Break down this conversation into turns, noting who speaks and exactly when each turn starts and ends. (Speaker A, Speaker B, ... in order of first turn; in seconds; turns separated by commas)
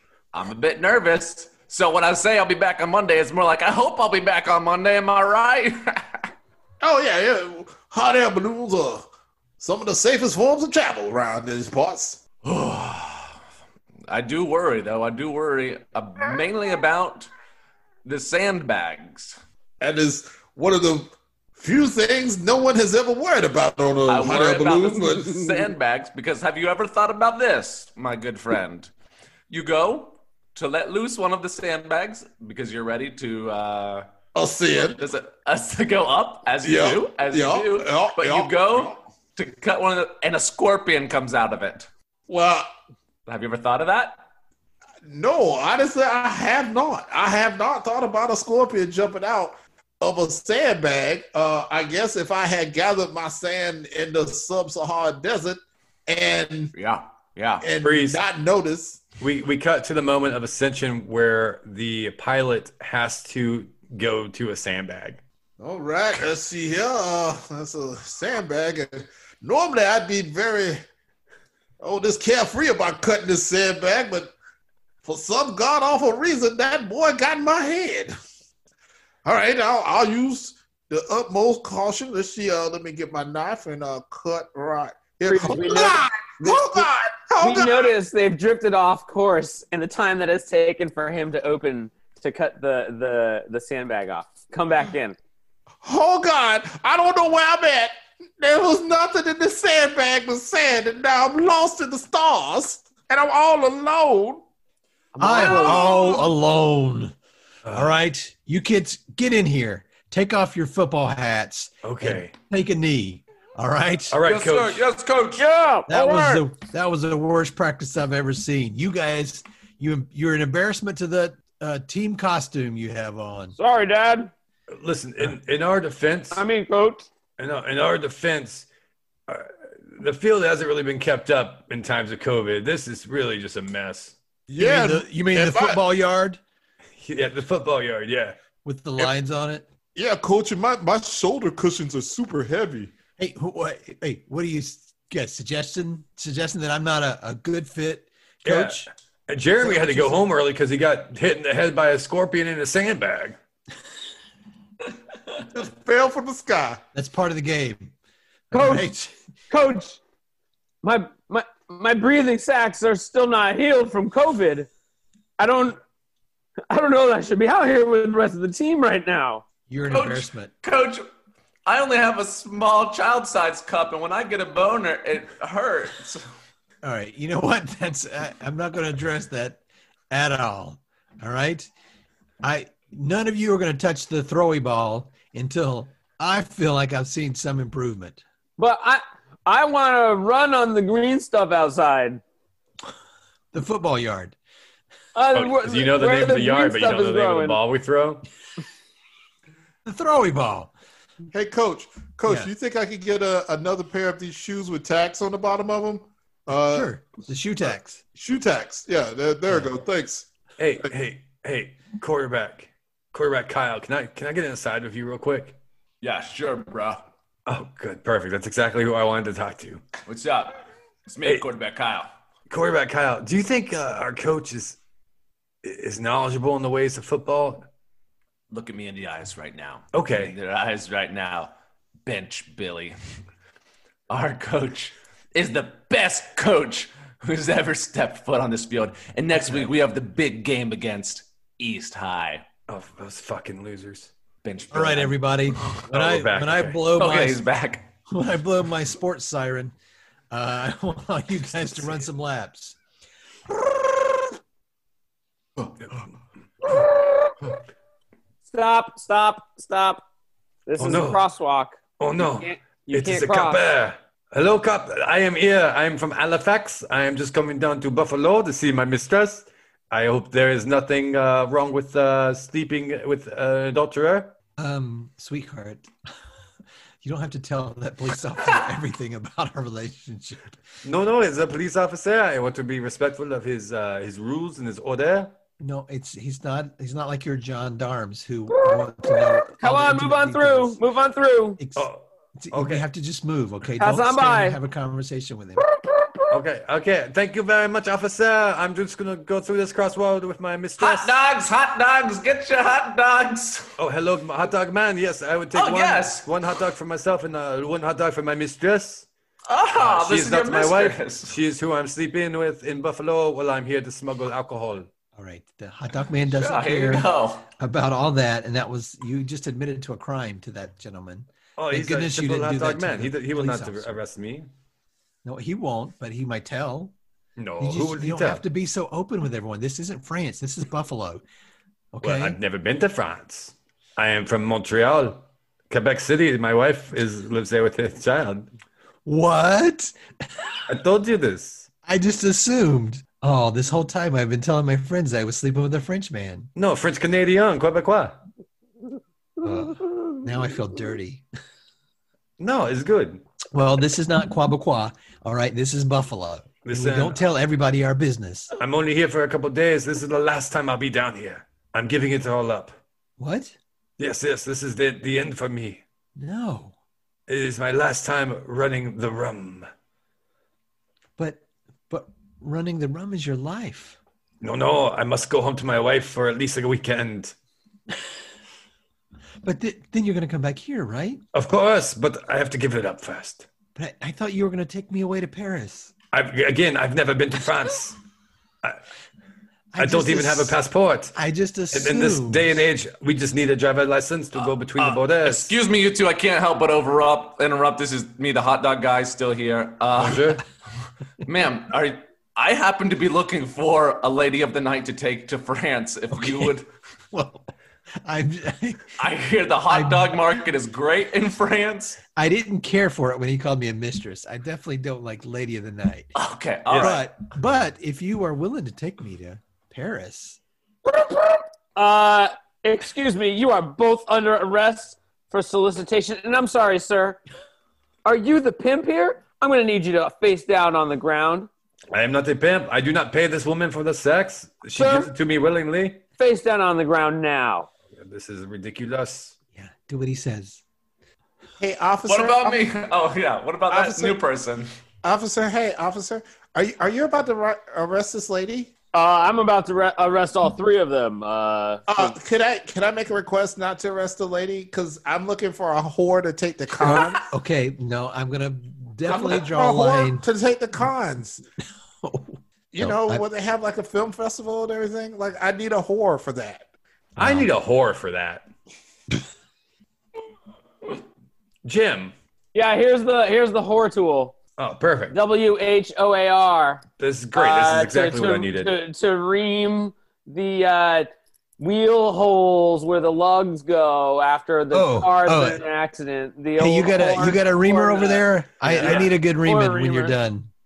Speaker A: 0.3-6.2, Speaker B: 6.8-9.1, Speaker B: 9.6-12.2, Speaker A: 12.4-13.4, Speaker A: 14.1-17.3, Speaker A: 18.0-19.4, Speaker B: 19.8-25.7, Speaker A: 24.1-28.9, Speaker A: 29.5-34.1, Speaker B: 34.4-35.1, Speaker A: 35.0-41.9, Speaker B: 36.6-38.9, Speaker B: 42.3-42.7, Speaker A: 43.2-44.2, Speaker B: 45.0-56.7, Speaker A: 56.7-57.7, Speaker B: 57.6-59.0, Speaker C: 57.8-58.2, Speaker C: 59.2-65.2, Speaker B: 65.6-70.8, Speaker B: 71.8-74.3, Speaker B: 75.0-78.1, Speaker B: 79.2-87.9, Speaker D: 85.2-86.9, Speaker D: 87.4-95.2, Speaker B: 95.8-104.4, Speaker D: 105.1-106.2, Speaker E: 105.2-107.1, Speaker B: 105.5-106.1, Speaker C: 107.6-107.9, Speaker E: 107.7-114.2, Speaker C: 111.8-112.3, Speaker C: 114.1-114.8, Speaker A: 114.2-115.5, Speaker D: 115.4-116.5, Speaker E: 115.9-123.5, Speaker D: 123.6-124.3, Speaker C: 124.7-126.5, Speaker D: 126.3-127.1, Speaker C: 127.4-128.7, Speaker C: 129.3-134.2, Speaker B: 134.5-135.8, Speaker E: 134.6-136.4, Speaker C: 137.0-138.4, Speaker E: 138.6-139.7, Speaker B: 139.9-142.9, Speaker E: 143.2-148.9, Speaker C: 148.4-153.4, Speaker E: 149.6-150.2, Speaker B: 155.5-156.8, Speaker E: 156.9-157.9, Speaker E: 158.5-159.1, Speaker D: 158.5-158.9, Speaker D: 159.5-160.0, Speaker D: 160.8-164.7, Speaker D: 165.4-165.8, Speaker D: 166.7-169.4, Speaker E: 169.7-170.5, Speaker A: 169.9-171.0, Speaker A: 171.7-176.2, Speaker E: 176.8-181.7, Speaker E: 182.4-188.2, Speaker D: 188.6-192.2, Speaker E: 193.5-194.4, Speaker D: 195.1-197.6, Speaker C: 195.3-198.2, Speaker E: 199.8-200.7, Speaker B: 201.3-206.9, Speaker E: 206.5-208.0, Speaker B: 208.2-210.2, Speaker C: 210.6-215.6, Speaker A: 216.0-217.1, Speaker C: 217.5-219.8, Speaker A: 220.1-222.1, Speaker C: 222.5-224.8, Speaker C: 225.6-227.7, Speaker A: 228.5-231.5, Speaker C: 229.9-230.4, Speaker A: 232.0-233.0, Speaker A: 234.1-242.4, Speaker C: 242.7-244.1, Speaker A: 244.4-245.8, Speaker E: 244.7-247.4, Speaker C: 245.9-246.8, Speaker A: 246.9-247.9, Speaker E: 248.1-249.7, Speaker E: 250.3-252.8, Speaker D: 256.6-257.5, Speaker D: 258.5-260.0, Speaker D: 260.7-263.6, Speaker C: 260.8-261.2, Speaker C: 262.0-274.3, Speaker E: 274.6-275.9, Speaker E: 277.0-280.5, Speaker C: 280.8-285.4, Speaker E: 285.6-290.8, Speaker D: 288.5-291.6, Speaker E: 291.6-291.9, Speaker C: 291.8-292.9, Speaker E: 292.4-295.6, Speaker D: 293.8-294.6, Speaker D: 295.6-296.3, Speaker C: 296.3-301.2, Speaker A: 300.8-303.7, Speaker C: 303.8-309.1, Speaker A: 305.5-306.3, Speaker A: 309.5-311.4, Speaker C: 309.8-314.9, Speaker E: 315.1-324.0, Speaker A: 316.3-317.5, Speaker C: 321.6-324.5, Speaker E: 325.2-326.9, Speaker C: 327.4-328.4, Speaker E: 327.6-331.2, Speaker E: 331.9-332.4, Speaker C: 332.0-338.5, Speaker E: 339.0-340.5, Speaker C: 340.7-341.7, Speaker E: 341.9-346.5, Speaker C: 346.6-348.2, Speaker E: 349.4-351.2, Speaker C: 352.4-353.2, Speaker E: 353.5-358.5, Speaker C: 356.6-357.2, Speaker C: 358.6-362.8, Speaker E: 363.2-363.6, Speaker C: 364.0-365.8, Speaker E: 366.1-366.8, Speaker C: 367.3-369.7, Speaker E: 371.2-374.0, Speaker C: 374.4-377.3, Speaker E: 379.4-381.2, Speaker C: 381.3-383.5, Speaker E: 383.8-385.9, Speaker C: 386.1-388.0, Speaker E: 389.7-390.6, Speaker C: 389.8-391.1, Speaker E: 391.1-392.6, Speaker C: 391.7-395.5, Speaker A: 394.8-400.4, Speaker C: 399.9-400.4, Speaker A: 401.2-406.7, Speaker E: 406.1-406.6, Speaker E: 407.1-407.5, Speaker E: 408.0-409.0, Speaker A: 409.0-412.0, Speaker E: 409.7-410.1, Speaker E: 412.1-416.1, Speaker A: 416.1-417.0, Speaker C: 416.7-417.0, Speaker E: 416.8-420.4, Speaker D: 420.9-427.2, Speaker D: 428.0-431.5, Speaker C: 431.9-436.0, Speaker D: 434.8-435.1, Speaker D: 436.2-437.7, Speaker C: 438.0-439.4, Speaker E: 439.5-440.6, Speaker B: 441.6-442.8, Speaker A: 442.1-444.7, Speaker B: 443.7-444.2, Speaker B: 445.0-448.7, Speaker D: 448.9-452.1, Speaker B: 451.9-457.2, Speaker E: 456.8-460.2, Speaker B: 459.1-461.4, Speaker E: 462.0-463.2, Speaker B: 462.7-466.7, Speaker C: 467.1-468.4, Speaker E: 467.2-467.5, Speaker C: 471.6-472.1, Speaker D: 472.5-474.4, Speaker C: 474.6-475.2, Speaker D: 475.1-476.8, Speaker C: 477.0-478.7, Speaker D: 477.3-490.1, Speaker E: 484.7-485.6, Speaker E: 486.6-490.5, Speaker C: 488.8-489.1